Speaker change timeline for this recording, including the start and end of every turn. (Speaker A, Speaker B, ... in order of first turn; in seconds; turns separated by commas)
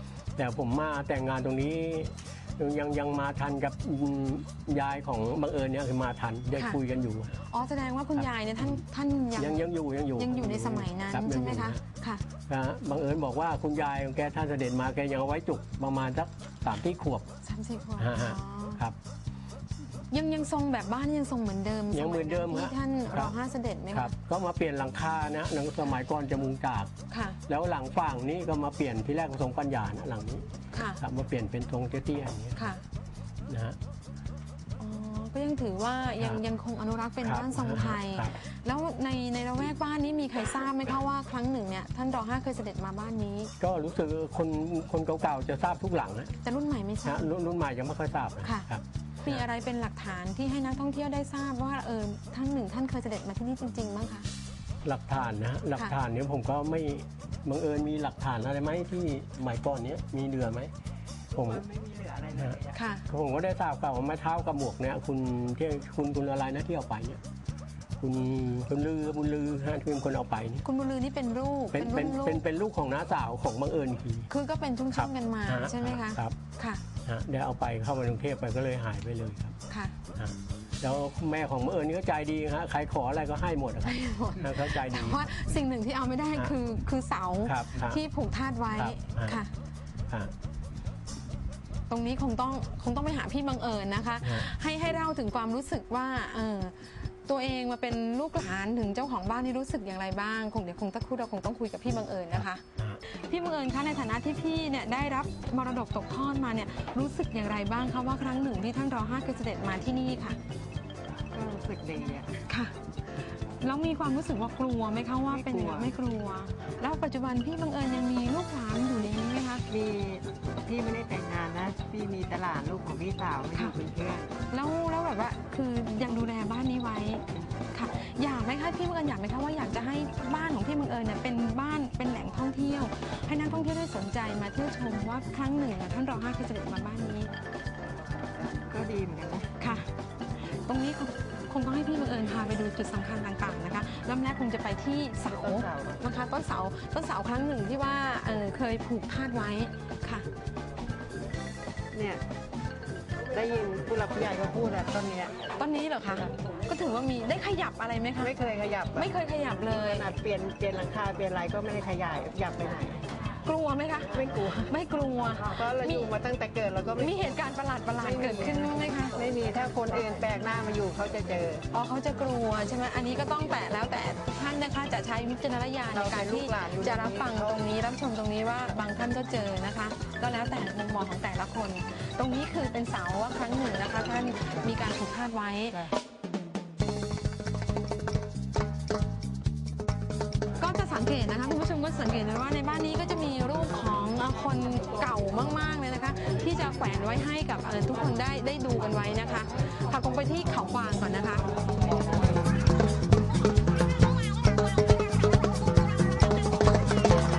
Speaker A: 0.4-7.4, Speaker B: 7.5-12.2, Speaker A: 8.2-8.8, Speaker A: 9.3-11.8, Speaker A: 12.5-17.3, Speaker B: 17.4-18.8, Speaker A: 18.0-18.9, Speaker B: 20.1-24.1, Speaker A: 21.9-23.3, Speaker A: 23.9-26.9, Speaker B: 27.1-27.4, Speaker A: 27.5-30.5, Speaker B: 30.7-31.0, Speaker A: 31.0-32.7, Speaker B: 32.5-32.8, Speaker A: 33.5-33.8, Speaker B: 34.8-43.5, Speaker A: 37.2-38.3, Speaker A: 43.6-46.3, Speaker B: 46.4-47.3, Speaker A: 47.0-49.4, Speaker B: 48.4-48.7, Speaker B: 49.2-54.3, Speaker A: 54.8-60.7, Speaker A: 61.3-61.6, Speaker C: 61.3-62.8, Speaker A: 62.4-67.2, Speaker B: 62.7-63.0, Speaker A: 68.0-70.6, Speaker B: 70.6-72.4, Speaker A: 71.7-74.3, Speaker B: 74.3-76.8, Speaker A: 74.9-76.3, Speaker A: 77.0-79.5, Speaker B: 79.7-79.9, Speaker A: 80.1-85.4, Speaker B: 83.8-89.5, Speaker A: 87.4-88.0, Speaker A: 88.8-89.4, Speaker B: 91.9-110.4, Speaker A: 94.2-94.5, Speaker A: 102.4-103.0, Speaker C: 111.3-112.3, Speaker B: 112.4-112.7, Speaker B: 113.5-119.6, Speaker C: 115.2-115.9, Speaker C: 119.7-124.3, Speaker B: 124.5-137.3, Speaker C: 138.3-139.6, Speaker B: 139.6-139.9, Speaker B: 140.4-150.3, Speaker C: 145.2-146.0, Speaker C: 151.9-152.2, Speaker C: 153.3-155.3, Speaker B: 155.6-158.3, Speaker C: 158.2-159.1, Speaker B: 158.9-160.1, Speaker C: 159.7-163.0, Speaker B: 163.4-166.1, Speaker C: 164.1-164.7, Speaker C: 165.4-167.3, Speaker B: 167.0-169.1, Speaker C: 168.0-171.6, Speaker B: 171.7-185.8, Speaker C: 175.9-177.6, Speaker B: 190.6-201.4